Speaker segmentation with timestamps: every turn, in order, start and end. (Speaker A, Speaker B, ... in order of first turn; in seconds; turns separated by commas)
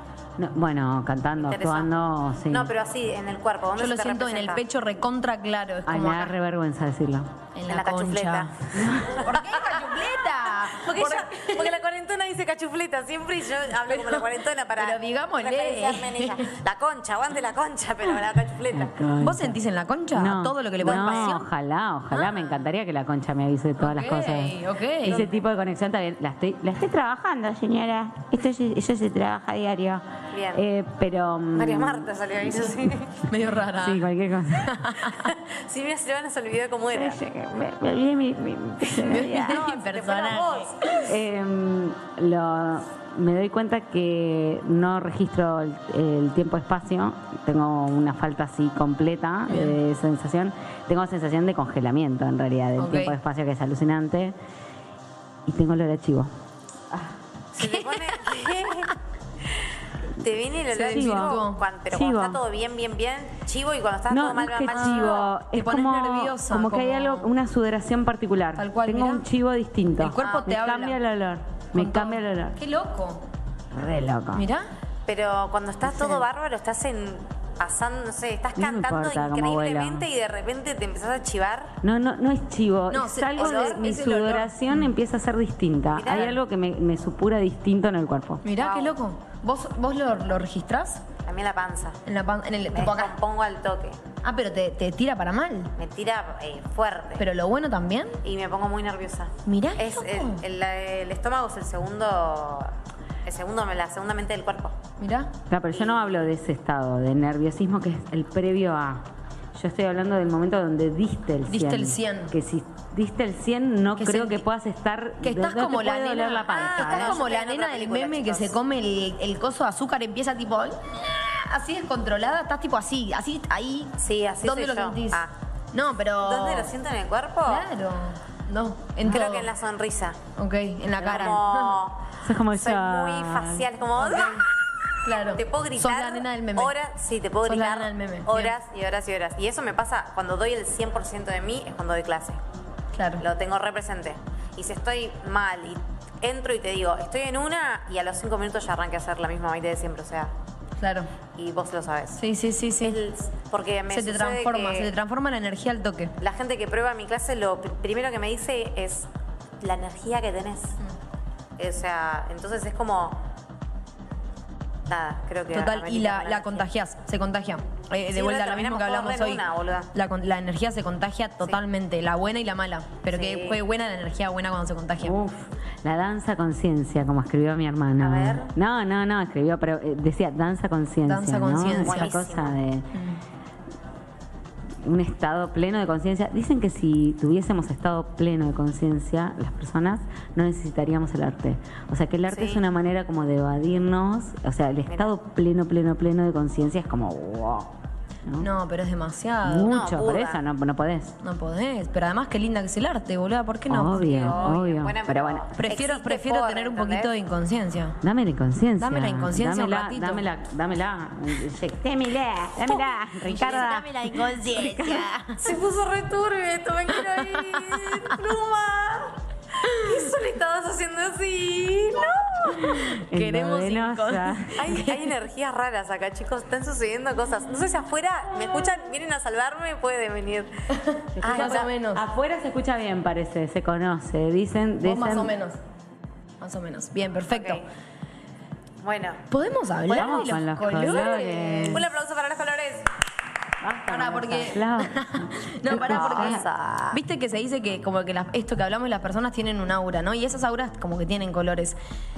Speaker A: 0.4-2.7, Speaker B: 1.4-1.9, Speaker B: 2.5-4.6, Speaker C: 3.8-6.3, Speaker A: 5.9-7.3, Speaker C: 7.5-11.7, Speaker B: 7.7-19.0, Speaker A: 8.7-9.2, Speaker C: 13.9-14.2, Speaker C: 14.8-16.5, Speaker A: 18.7-19.6, Speaker C: 19.2-21.4, Speaker A: 20.1-32.1, Speaker B: 20.8-21.4, Speaker C: 23.8-25.3, Speaker B: 30.3-30.6, Speaker B: 31.6-33.2, Speaker C: 33.3-34.1, Speaker A: 33.7-34.9, Speaker C: 34.6-35.3, Speaker B: 35.2-37.2, Speaker A: 36.9-39.6, Speaker C: 39.0-41.1, Speaker B: 39.3-41.0, Speaker A: 41.0-54.4, Speaker C: 49.5-49.8, Speaker C: 52.8-53.2, Speaker A: 55.5-56.3, Speaker B: 57.5-59.0, Speaker C: 57.6-58.3, Speaker B: 60.2-65.3, Speaker C: 60.7-61.6, Speaker A: 60.9-61.4, Speaker A: 61.9-62.4, Speaker A: 64.1-72.6, Speaker C: 64.7-67.3, Speaker C: 68.6-69.2, Speaker C: 70.0-71.0, Speaker C: 71.8-73.2, Speaker A: 73.7-74.5, Speaker C: 74.3-74.7, Speaker B: 75.1-81.8, Speaker C: 75.9-76.2, Speaker A: 78.6-80.1, Speaker A: 81.8-88.4, Speaker C: 82.9-84.9, Speaker B: 83.4-83.8, Speaker B: 85.9-86.4, Speaker C: 88.5-91.0, Speaker B: 88.6-89.0, Speaker B: 91.2-92.0, Speaker C: 92.1-93.1, Speaker B: 92.7-94.0, Speaker C: 94.2-95.7, Speaker B: 95.8-97.3, Speaker C: 97.2-98.2, Speaker B: 98.2-102.7, Speaker C: 99.5-100.4, Speaker B: 103.2-104.8, Speaker C: 105.0-105.3, Speaker A: 105.5-117.2, Speaker B: 105.8-106.1, Speaker C: 111.5-112.3, Speaker C: 114.0-114.5, Speaker C: 115.2-126.7, Speaker B: 116.5-118.6, Speaker B: 124.0-125.3, Speaker B: 126.2-127.7, Speaker C: 127.5-129.5, Speaker B: 129.1-130.2, Speaker C: 130.4-131.8, Speaker B: 131.0-134.5, Speaker A: 132.2-133.7, Speaker C: 134.0-134.5, Speaker C: 135.0-136.7, Speaker B: 135.1-142.4, Speaker C: 137.5-138.5, Speaker C: 142.9-143.2, Speaker B: 143.2-150.3, Speaker C: 150.8-151.1, Speaker B: 151.4-152.2, Speaker C: 152.2-153.0, Speaker B: 152.8-154.9, Speaker C: 153.9-156.1, Speaker B: 156.2-159.1, Speaker B: 159.6-160.8, Speaker B: 161.6-163.2, Speaker B: 164.9-166.7, Speaker C: 165.5-169.4, Speaker B: 168.1-169.9, Speaker C: 169.9-175.2, Speaker B: 173.1-173.6, Speaker A: 175.0-182.9, Speaker B: 178.0-178.5, Speaker C: 181.1-182.1, Speaker B: 181.7-182.6, Speaker C: 182.9-183.2, Speaker A: 184.8-197.7, Speaker B: 192.3-192.6, Speaker B: 194.9-195.2, Speaker C: 198.4-199.7, Speaker A: 199.4-201.2, Speaker B: 199.7-200.4, Speaker C: 201.2-204.5, Speaker A: 203.7-205.5, Speaker B: 204.0-207.2, Speaker C: 205.6-208.0, Speaker A: 208.0-215.1, Speaker C: 208.8-210.2, Speaker C: 213.2-215.4, Speaker B: 215.4-222.4, Speaker C: 217.3-218.0, Speaker C: 222.1-225.1, Speaker A: 222.5-224.6, Speaker B: 224.6-230.5, Speaker C: 230.7-232.1, Speaker A: 231.2-235.3, Speaker B: 231.2-231.7, Speaker C: 234.8-235.6, Speaker C: 236.4-237.6, Speaker B: 237.3-237.6, Speaker B: 238.8-239.2, Speaker C: 239.3-241.8, Speaker B: 239.9-242.9, Speaker A: 239.9-241.8, Speaker A: 243.6-246.4, Speaker C: 243.9-251.8, Speaker B: 245.7-247.0